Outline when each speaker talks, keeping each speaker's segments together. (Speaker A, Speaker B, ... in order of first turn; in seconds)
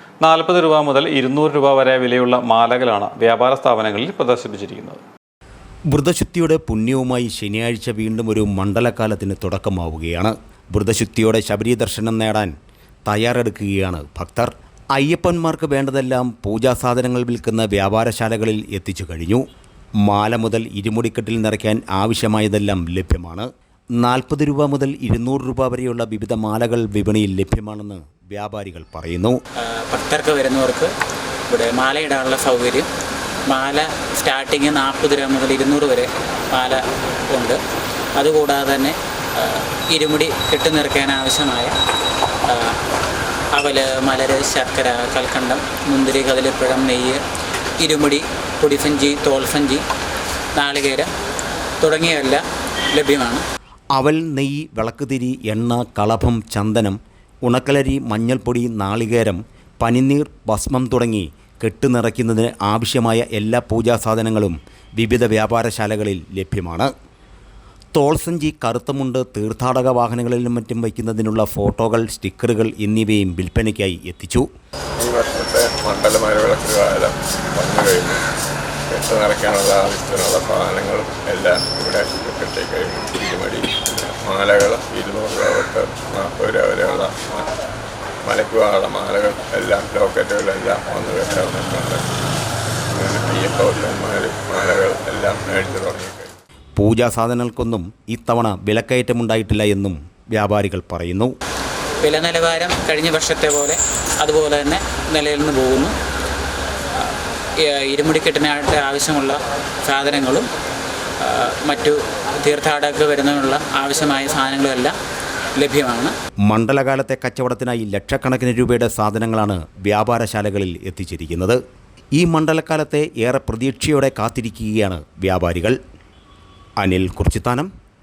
Speaker A: 0.2-5.0
Speaker B: 5.9-12.5, 13.1-19.4, 20.1-23.4, 24.0-29.4, 54.0-66.9, 67.9-74.5, 96.8-101.3, 116.5-121.6, 122.2-125.8, 126.8-127.7
Speaker C: 29.6-30.9, 31.5-32.9, 33.5-37.6, 38.1-41.7, 42.5-42.8, 43.5-47.2, 47.8-49.8, 50.5-51.1, 51.8-52.4, 52.9-53.4, 102.0-105.9, 107.0-110.5, 111.2-114.9, 115.5-116.1
Speaker D: 75.0-78.2, 78.9-87.5, 88.2-92.0, 92.9-96.3